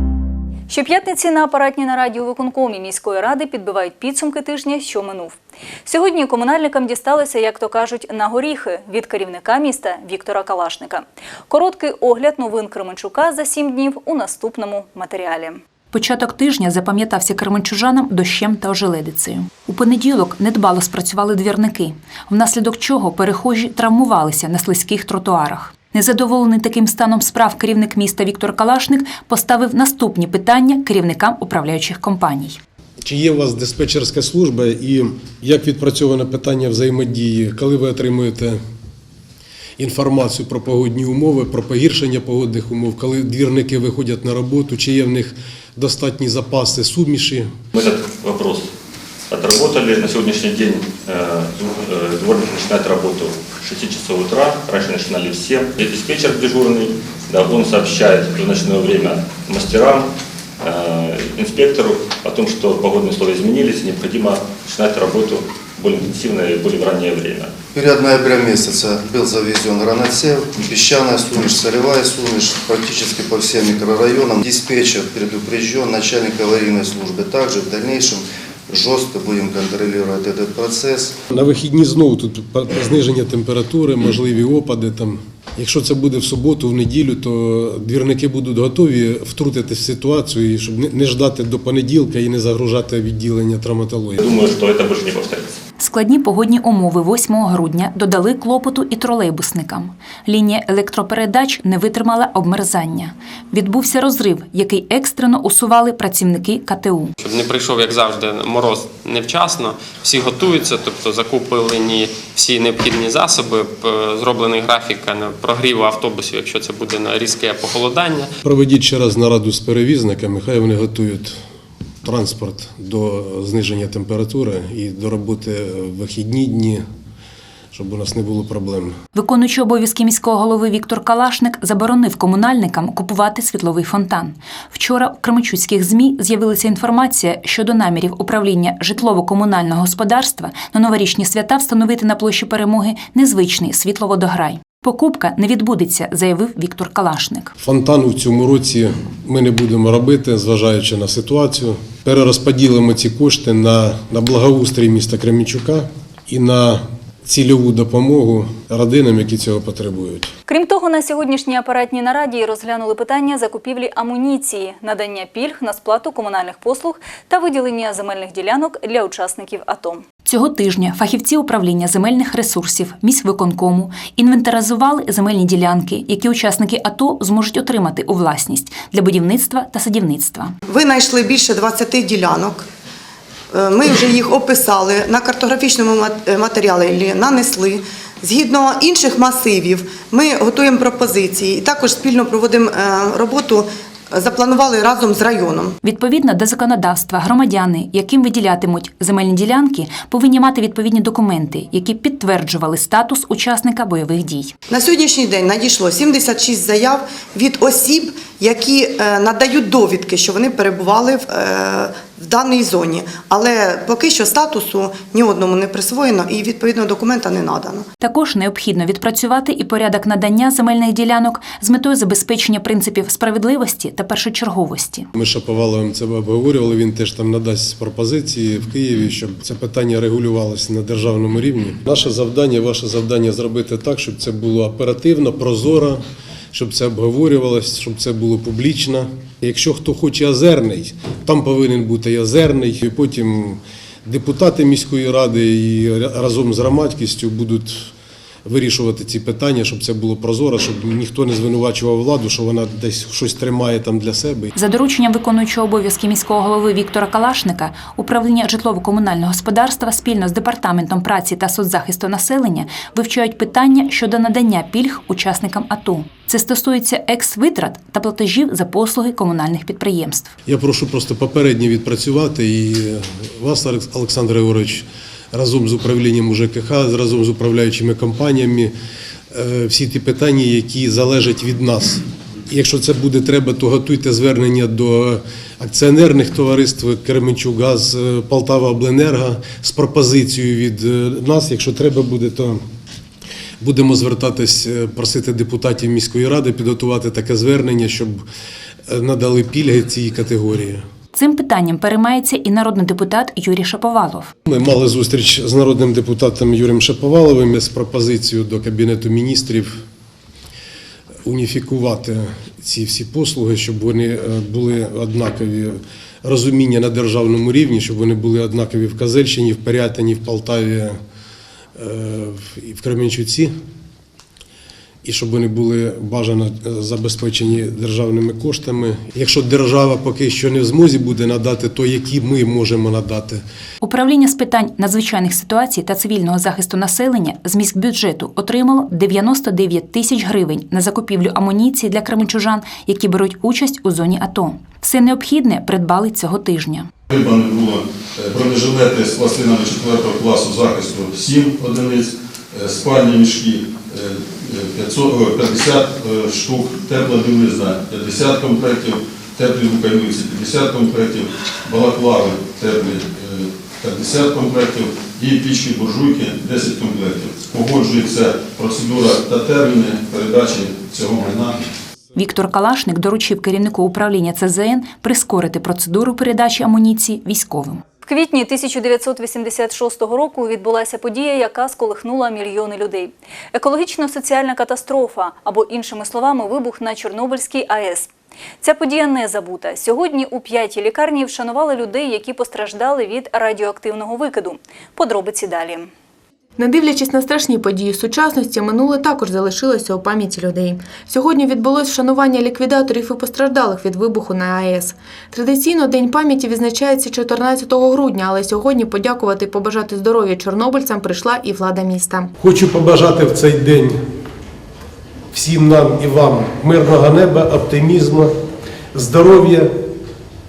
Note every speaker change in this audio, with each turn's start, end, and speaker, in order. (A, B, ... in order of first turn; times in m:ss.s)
0:00.7-0:15.6 A
0:15.9-0:32.6 B
0:33.0-0:38.6 C
0:39.8-0:47.6 C
0:47.7-0:48.7 D
0:49.3-1:07.5 D
1:07.7-1:21.1 E
1:21.3-1:34.2 C
1:34.2-1:35.6 D
1:35.8-1:47.1 B
1:47.2-1:58.3 F
1:58.4-2:01.4 C
2:02.0-2:06.8 C
2:07.7-2:09.0 C
2:09.2-2:27.5 B
2:27.6-2:40.3 C
2:40.5-2:50.1 A
2:50.2-3:00.6 B
3:00.7-3:02.7 G
3:03.5-3:15.7 G
3:15.8-3:24.5 B
3:24.7-3:37.8 G
3:38.0-3:45.1 B
3:45.2-3:56.0 C
3:56.5-4:07.9 C
4:08.4-4:14.5 C
4:14.6-4:30.3 B
4:30.5-4:38.7 C
4:39.3-4:52.6 C
4:53.6-4:58.2 C
4:58.9-5:00.8 C
5:01.1-5:04.3 B
5:04.5-5:09.8 C
5:11.2-5:21.0 C
5:21.8-5:23.5 C
5:25.0-5:33.4 C
5:33.8-5:46.9 B
5:47.1-6:11.6 H
6:12.2-6:17.8 B
6:18.0-6:28.1 A
6:28.6-6:35.9 A
6:36.6-6:52.3 I
6:52.4-6:54.0 C
6:55.3-6:58.3 C
6:58.9-6:59.7 C